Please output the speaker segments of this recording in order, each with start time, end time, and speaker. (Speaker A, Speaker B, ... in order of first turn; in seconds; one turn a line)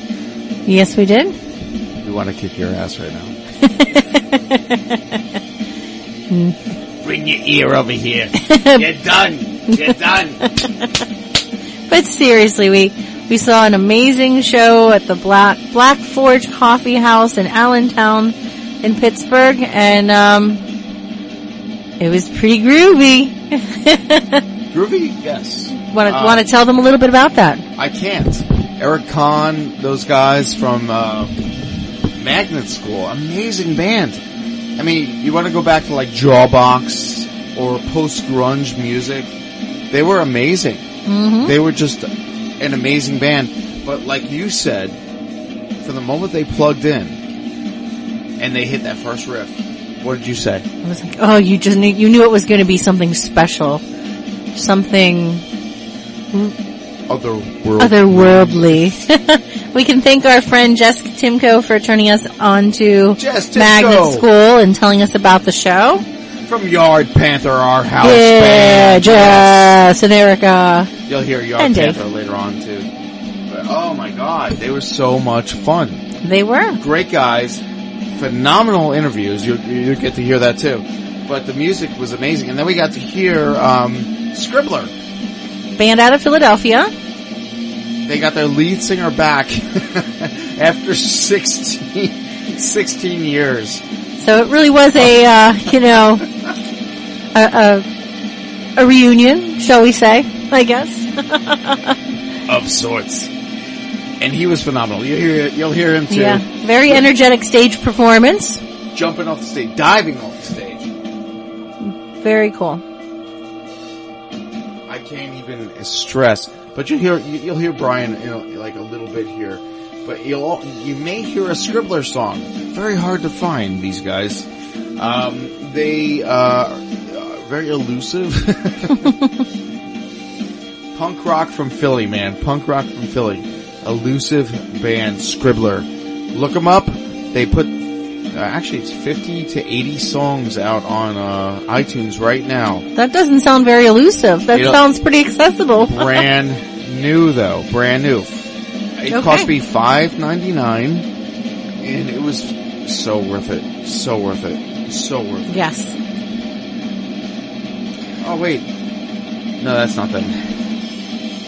Speaker A: 0.7-1.4
Speaker B: 2.0-3.3
Speaker A: 3.8-5.0
Speaker A: 6.3-6.6
Speaker B: 7.0-10.4
Speaker A: 8.4-8.9
Speaker A: 9.7-10.9
Speaker A: 11.9-20.6
Speaker A: 22.0-24.4
Speaker B: 24.7-26.4
Speaker A: 25.8-27.6
Speaker B: 27.8-31.3
Speaker B: 32.1-34.2
Speaker B: 34.8-39.3
Speaker B: 39.9-40.9
Speaker A: 41.0-41.5
Speaker B: 41.4-45.0
Speaker B: 45.8-47.2
Speaker B: 48.4-50.6
Speaker A: 50.8-53.8
Speaker A: 54.5-55.4
Speaker B: 57.1-58.9
Speaker A: 57.8-66.0
Speaker B: 63.2-64.2
Speaker B: 66.5-69.8
Speaker A: 68.0-70.9
Speaker B: 71.1-72.9
Speaker A: 71.6-72.0
Speaker B: 73.5-76.0
Speaker A: 76.2-76.8
Speaker B: 76.8-84.9
Speaker A: 85.7-86.9
Speaker B: 88.0-93.8
Speaker A: 94.2-96.3
Speaker B: 95.0-95.2
Speaker A: 97.3-97.9
Speaker A: 98.8-102.0
Speaker B: 102.5-103.3
Speaker B: 104.2-107.0
Speaker A: 106.1-108.6
Speaker B: 108.9-110.9
Speaker A: 111.8-112.8
Speaker B: 114.9-129.0
Speaker B: 130.9-137.8
Speaker B: 138.3-142.8
Speaker A: 142.9-146.2
Speaker B: 144.5-144.8
Speaker B: 145.8-151.1
Speaker A: 149.1-149.5
Speaker B: 151.8-155.6
Speaker A: 155.5-155.9
Speaker B: 158.2-158.7
Speaker B: 159.6-160.5